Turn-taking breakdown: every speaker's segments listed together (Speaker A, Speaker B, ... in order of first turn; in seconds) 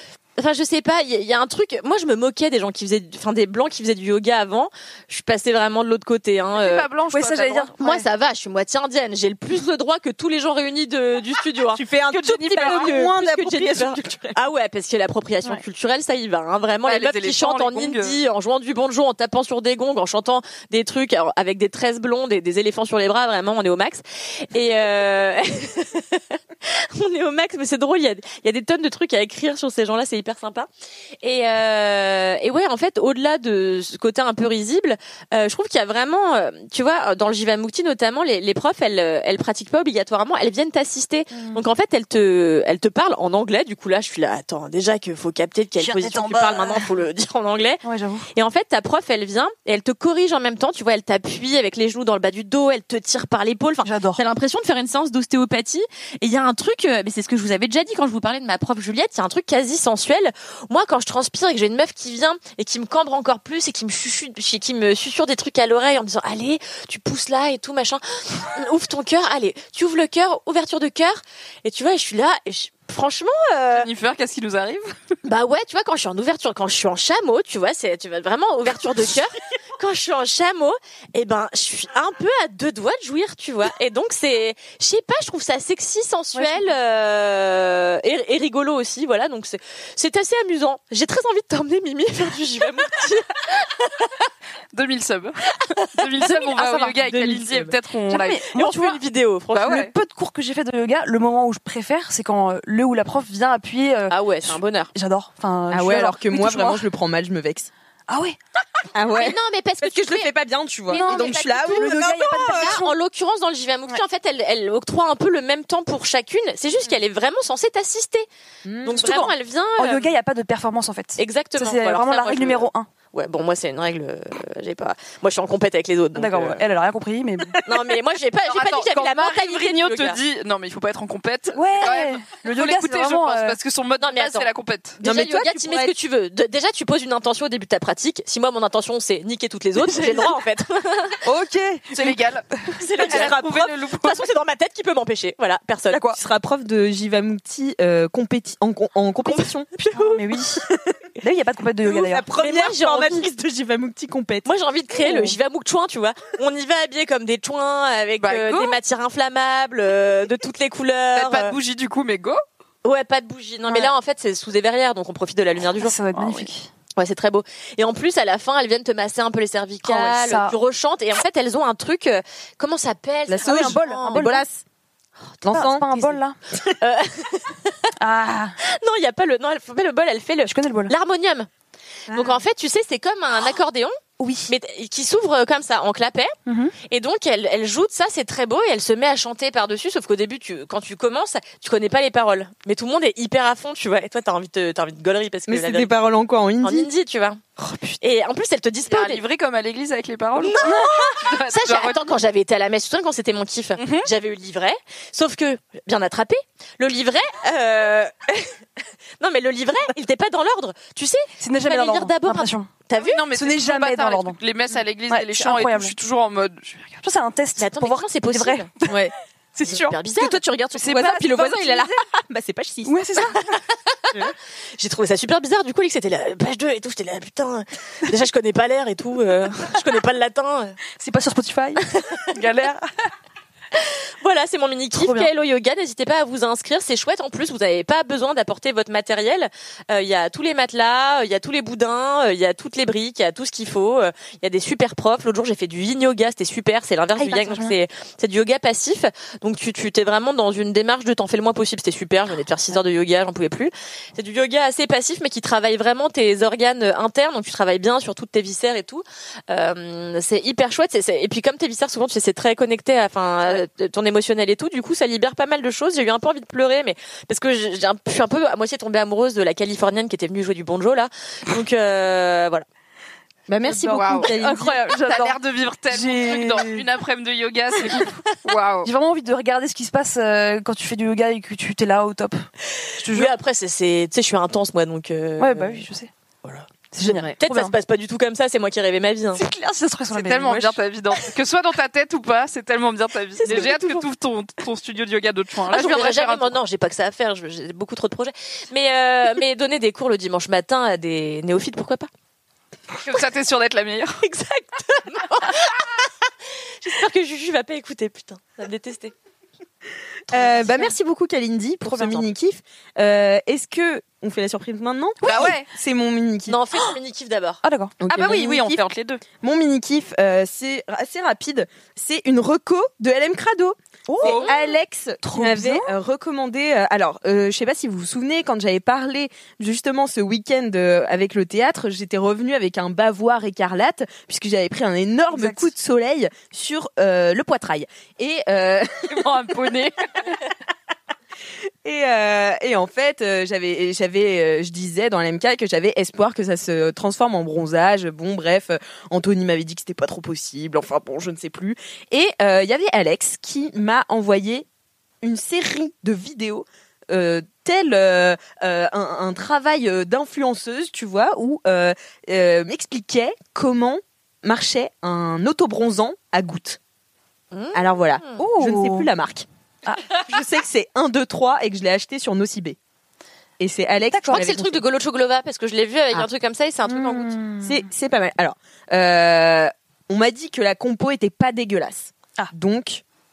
Speaker A: 0.4-6.9, 7.8-30.7, 31.2-73.9, 75.2-94.1, 98.5-99.8, 104.1-104.9, 109.1-110.3, 110.9-118.3, 118.8-120.1, 121.2-126.6, 127.6-130.2, 134.0-141.2, 142.8-143.4, 144.0-146.0, 149.3-150.2, 152.4-153.3, 154.4-161.6, 162.8-174.3, 176.8-177.8, 178.6-181.5, 182.1-183.9, 184.5-186.3, 186.9-195.9, 196.6-197.4, 198.0-199.2, 200.4-208.5, 209.2-213.2, 217.6-218.7, 219.6-220.4, 223.4-224.2, 224.8-230.8, 233.7-272.6, 282.8-285.8, 286.4-289.4, 293.4-294.0, 295.7-302.1, 304.2-306.1, 306.8-309.1, 316.5-317.6, 324.2-324.5, 367.5-368.4, 374.3-377.4
Speaker B: 6.5-7.7, 12.4-13.0, 16.9-18.2, 73.7-74.9, 94.7-98.4, 99.5-99.9, 128.5-135.0, 141.9-142.4, 143.0-144.2, 158.2-158.8, 161.1-162.4, 198.9-202.0, 203.8-204.1, 212.9-217.0, 221.0-221.4, 273.8-278.9, 290.1-296.6, 303.0-304.2, 315.2-315.7, 318.1-319.2, 324.2-324.5, 339.1-339.9
Speaker C: 7.1-8.0, 41.3-41.6, 45.8-46.9, 47.8-48.3, 53.8-54.2, 86.3-86.7, 98.1-99.0, 99.6-106.8, 108.1-108.4, 110.9-113.0, 119.0-122.9, 126.1-127.6, 131.5-133.6, 139.8-140.3, 141.2-142.2, 145.9-146.2, 149.9-150.6, 151.2-152.3, 155.1-155.3, 163.7-163.9, 165.8-166.7, 169.8-170.6, 173.4-174.4, 175.5-176.4, 178.0-178.6, 180.4-180.9, 184.2-184.5, 186.4-186.7, 200.6-201.1, 211.4-212.7, 213.3-214.4, 215.1-215.9, 217.0-219.9, 220.8-221.7, 222.8-223.4, 231.0-232.9, 234.9-235.3, 247.2-247.8, 273.7-275.4, 275.9-276.8, 278.8-283.3, 285.4-286.1, 286.9-287.8, 289.3-290.8, 311.8-312.2, 315.2-315.5, 317.6-317.9, 324.1-324.5, 325.2-325.9, 335.3-335.7, 368.4-369.1, 374.1-374.4, 376.9-377.8
Speaker D: 11.7-14.3, 97.0-97.8, 105.7-107.7, 108.9-112.8, 118.6-119.2, 135.0-135.9, 143.0-143.7, 146.1-149.7, 150.7-150.9, 151.8-154.5, 173.3-174.6, 175.4-176.2, 182.1-182.3, 195.5-196.9, 218.8-219.1, 220.1-222.9, 273.5-274.9, 310.3-316.6, 318.0-318.8, 319.4-339.3, 341.8-354.6, 355.2-366.8, 367.7-369.4, 370.1-372.8, 373.6-374.8, 377.6-383.0